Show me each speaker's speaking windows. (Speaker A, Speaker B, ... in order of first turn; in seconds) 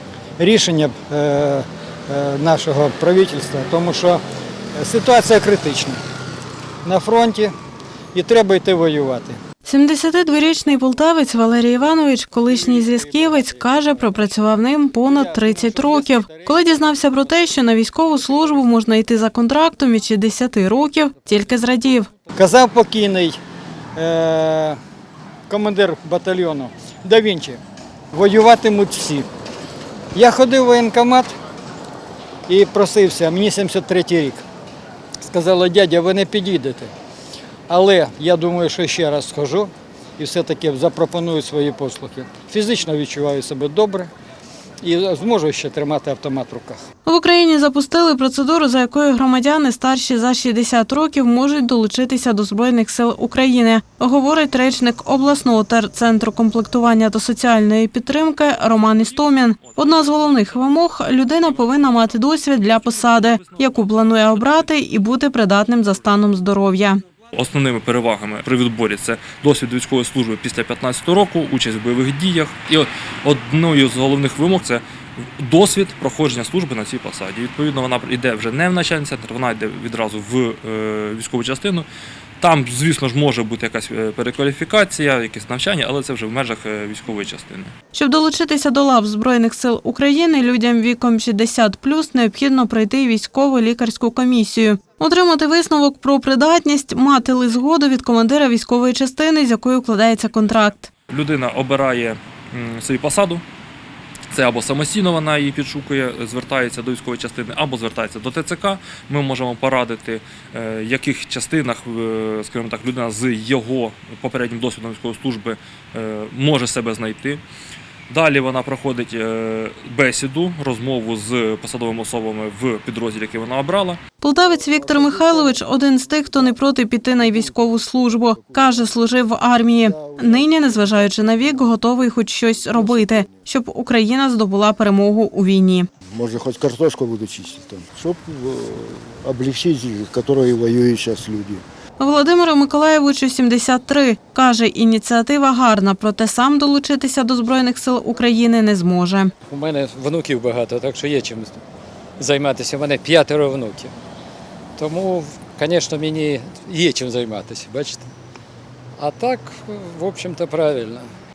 Speaker A: 0.4-4.2, 4.8-6.0, 6.8-7.5, 8.1-9.4, 12.3-14.4, 15.0-17.6, 18.1-18.7, 22.3-23.4, 23.9-24.8, 25.5-27.6, 28.1-29.3, 30.1-31.3, 32.5-34.4, 35.2-36.9, 37.7-44.1, 44.8-46.8
Speaker B: 9.6-22.1, 47.0-67.0, 87.9-100.9, 124.2-135.9, 142.0-149.3
Speaker C: 58.4-65.0, 67.3-81.8, 82.4-87.7, 101.1-103.4, 104.3-117.4, 118.1-124.0
Speaker D: 124.4-128.9, 129.8-131.8, 132.5-133.5, 136.1-141.6
Speaker E: 149.5-151.6, 152.2-153.9, 154.8-158.1, 159.0-161.1